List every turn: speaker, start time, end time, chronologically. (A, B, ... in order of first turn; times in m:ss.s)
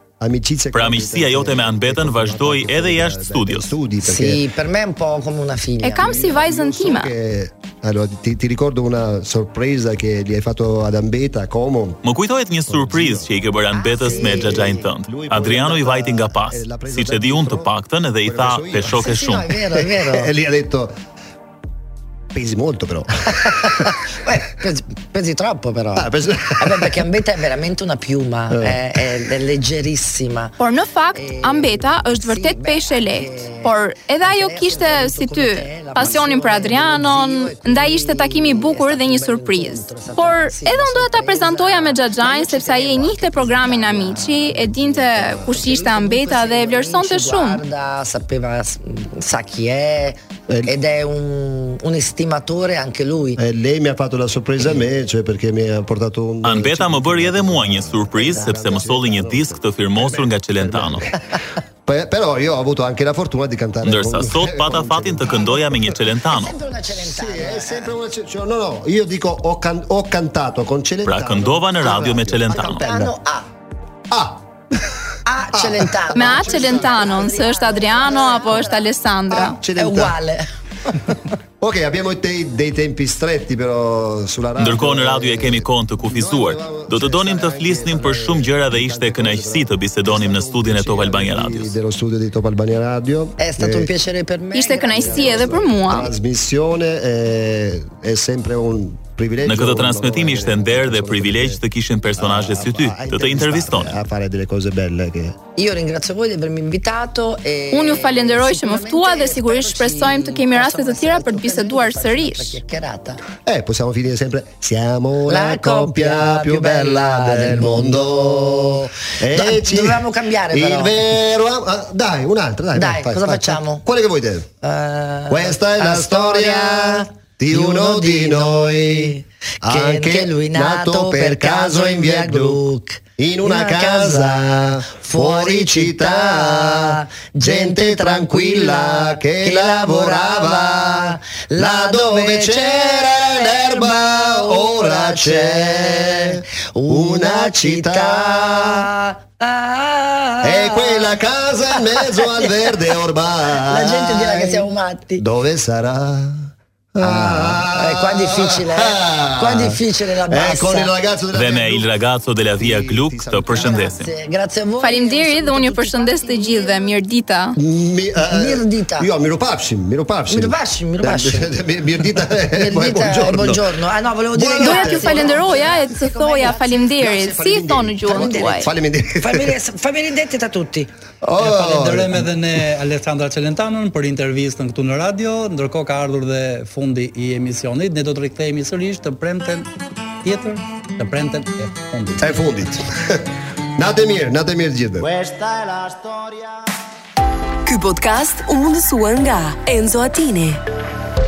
0:00.2-0:04.4 A
0:00.7-0:03.7 B
0:04.0-0:06.4 C
0:05.8-0:07.1 D
0:06.0-0:12.0 A
0:12.0-0:19.5 B
0:12.7-0:13.3 A
0:13.7-0:14.9 C
0:14.0-0:17.7 A
0:18.2-0:19.2 A
0:18.9-0:20.3 C
0:19.7-0:20.9 A
0:22.3-0:23.8 A
0:23.4-0:30.6 C
0:26.0-0:27.1 A
0:28.5-0:28.9 A
0:30.6-0:47.6 D
0:31.1-0:53.4 C
0:53.4-1:01.2 A
0:56.4-1:01.0 B
1:01.8-1:06.0 A
1:03.8-1:06.5 B
1:06.3-1:07.9 C
1:07.0-1:13.1 A
1:11.0-1:12.9 B
1:12.5-1:13.5 C
1:14.1-1:14.9 A
1:15.2-1:20.5 C
1:15.5-1:17.4 A
1:16.1-1:19.6 D
1:19.3-1:20.2 A
1:21.6-1:33.9 A
1:24.6-1:31.7 B
1:33.4-1:35.8 C
1:34.5-1:36.1 D
1:34.9-1:41.6 A
1:39.4-1:44.0 B
1:42.2-1:45.4 A
1:45.6-1:53.2 C
1:47.7-1:52.6 D
1:53.4-2:04.5 A
1:55.3-2:01.0 C
2:02.7-2:03.8 C
2:04.6-2:33.0 C
2:05.3-2:12.6 A
2:13.2-2:28.8 A
2:30.4-2:41.9 A
2:33.6-2:35.2 C
2:37.0-2:40.9 C
2:41.3-2:44.1 B
2:42.6-2:44.0 A
2:43.4-2:47.0 C
2:44.8-2:47.6 D
2:47.6-2:53.6 A
2:48.2-2:49.1 C
2:50.3-2:51.5 C
2:52.5-2:56.9 C
2:54.3-2:55.7 A
2:54.6-2:58.7 D
2:57.0-2:59.5 A
2:58.0-2:58.7 C
2:59.2-3:00.9 C
3:01.2-3:02.3 A
3:01.4-3:09.7 E
3:10.2-3:12.4 E
3:12.2-3:15.1 A
3:17.6-3:20.6 F